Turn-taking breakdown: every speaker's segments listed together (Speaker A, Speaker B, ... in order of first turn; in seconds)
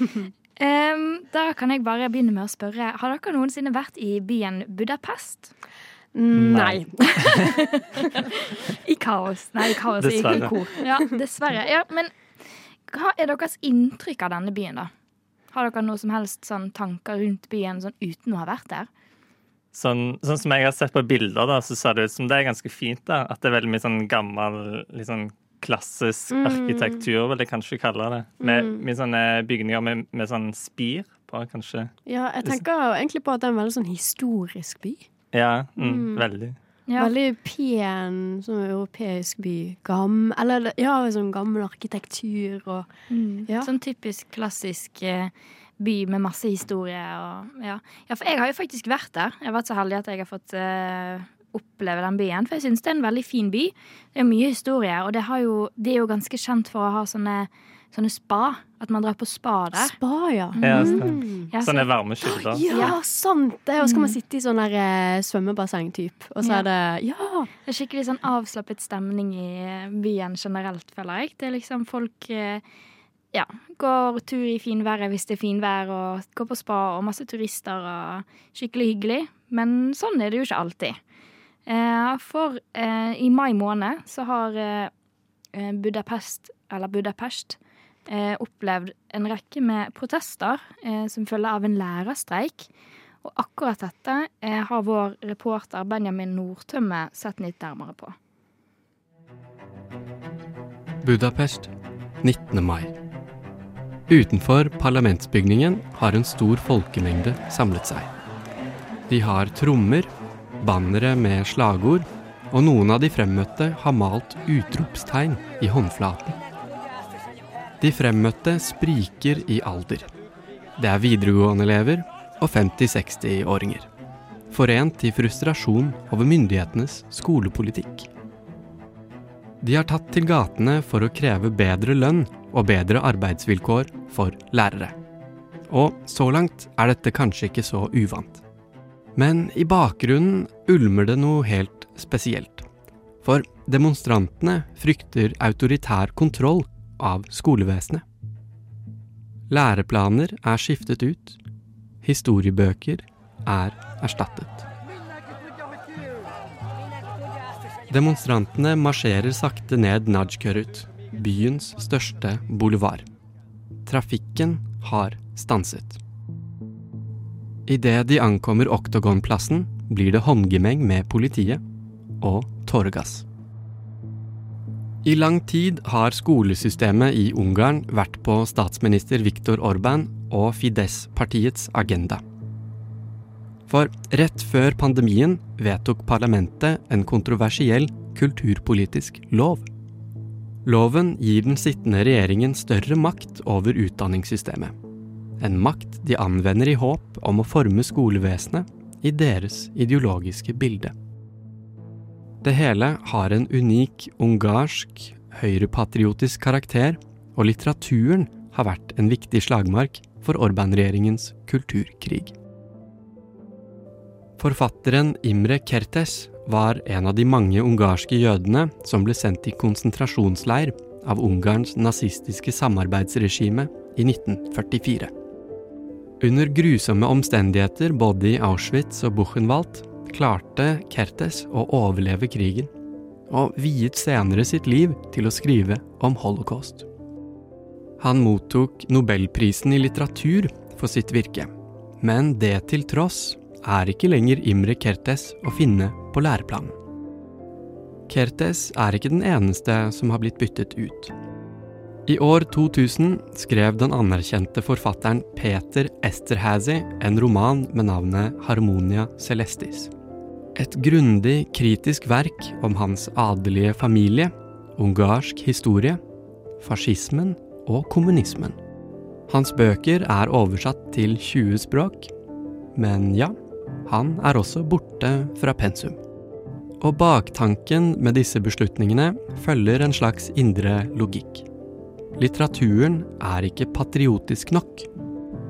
Speaker A: 0.6-5.5, 7.4-12.1, 12.9-14.9, 15.5-18.9, 36.9-37.1, 43.1-60.0, 60.5-61.9, 62.7-63.0, 63.8-64.2, 66.4-66.7, 67.7-72.6, 73.3-81.0, 81.7-84.9, 85.5-92.7, 93.2-98.2
Speaker B: 6.2-7.8, 10.3-10.8, 26.4-27.0, 28.4-28.9, 32.1-35.1, 35.8-36.2, 37.0-42.9, 43.5-43.7, 59.8-61.5, 62.2-67.5
Speaker C: 6.3-7.4, 10.0-10.6, 19.7-31.9, 35.3-36.6, 60.6-62.9
Speaker D: 101.0-101.7, 102.2-102.9, 104.1-108.1, 109.1-116.4, 117.8-120.1, 120.8-123.9, 124.5-128.1, 129.6-134.9, 135.7-138.4, 139.2-142.7, 143.2-148.0, 149.5-151.4, 152.0-154.7, 157.9-163.1, 163.9-166.0, 167.7-171.6, 172.2-173.2, 175.0-182.2, 183.7-189.7, 190.7-194.8, 195.4-200.9, 202.4-212.3, 214.4-225.1, 226.2-232.7, 233.3-236.9, 238.0-246.8, 248.1-251.1, 252.1-259.9, 260.6-266.0, 266.6-268.6, 269.3-272.1, 272.8-276.0, 276.8-281.4, 282.1-284.9